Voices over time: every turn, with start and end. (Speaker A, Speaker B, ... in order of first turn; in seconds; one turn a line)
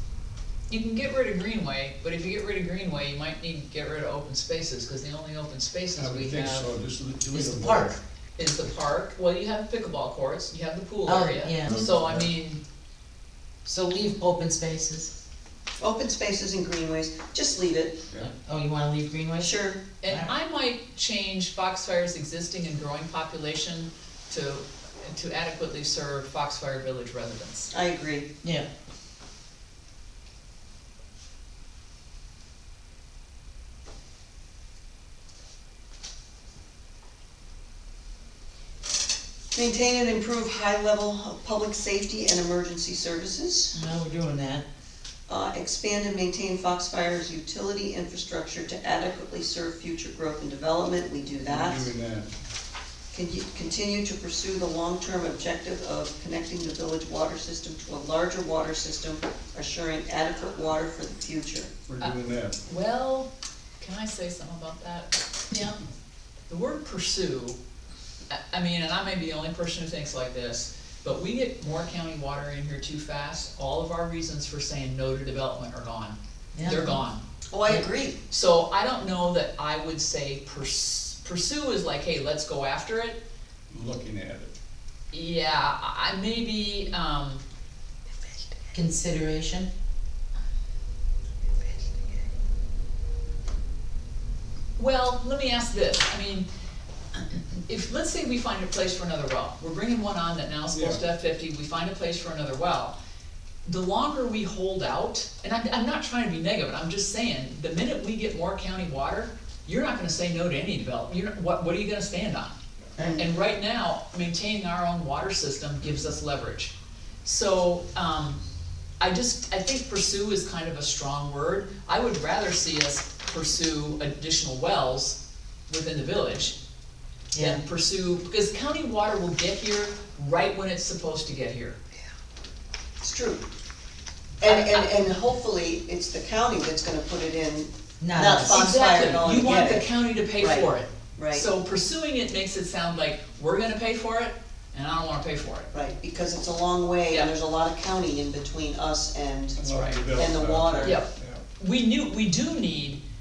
Speaker A: 0.7-6.7
Speaker B: 6.0-8.0
Speaker C: 7.3-8.0
Speaker A: 8.4-12.6
Speaker C: 11.1-11.8
Speaker B: 12.0-12.3
Speaker C: 13.6-15.1
Speaker D: 15.8-18.0
Speaker C: 18.2-20.3
Speaker D: 19.4-19.8
Speaker A: 20.0-27.7
Speaker D: 27.7-28.3
Speaker D: 39.5-43.8
Speaker C: 43.7-44.6
Speaker D: 45.3-51.9
Speaker B: 51.4-52.3
Speaker D: 53.1-61.7
Speaker B: 61.9-62.6
Speaker A: 62.0-63.3
Speaker A: 63.8-65.1
Speaker C: 65.5-65.8
Speaker A: 66.5-67.6
Speaker A: 68.3-77.2
Speaker C: 76.5-77.0
Speaker D: 77.5-78.2
Speaker A: 78.3-83.2
Speaker B: 83.7-84.5
Speaker A: 85.1-87.4
Speaker C: 88.7-89.7
Speaker A: 94.8-96.5
Speaker A: 97.7-102.9
Speaker B: 100.7-101.0
Speaker A: 103.7-118.4
Speaker D: 113.0-113.2
Speaker A: 119.0-126.5
Speaker C: 127.3-127.6
Speaker A: 127.4-131.8
Speaker D: 133.0-133.4
Speaker D: 134.4-141.5
Speaker A: 134.4-134.9
Speaker C: 138.0-138.7
Speaker A: 138.5-145.7
Speaker D: 145.7-151.0
Speaker B: 149.6-151.4
Speaker A: 150.8-153.0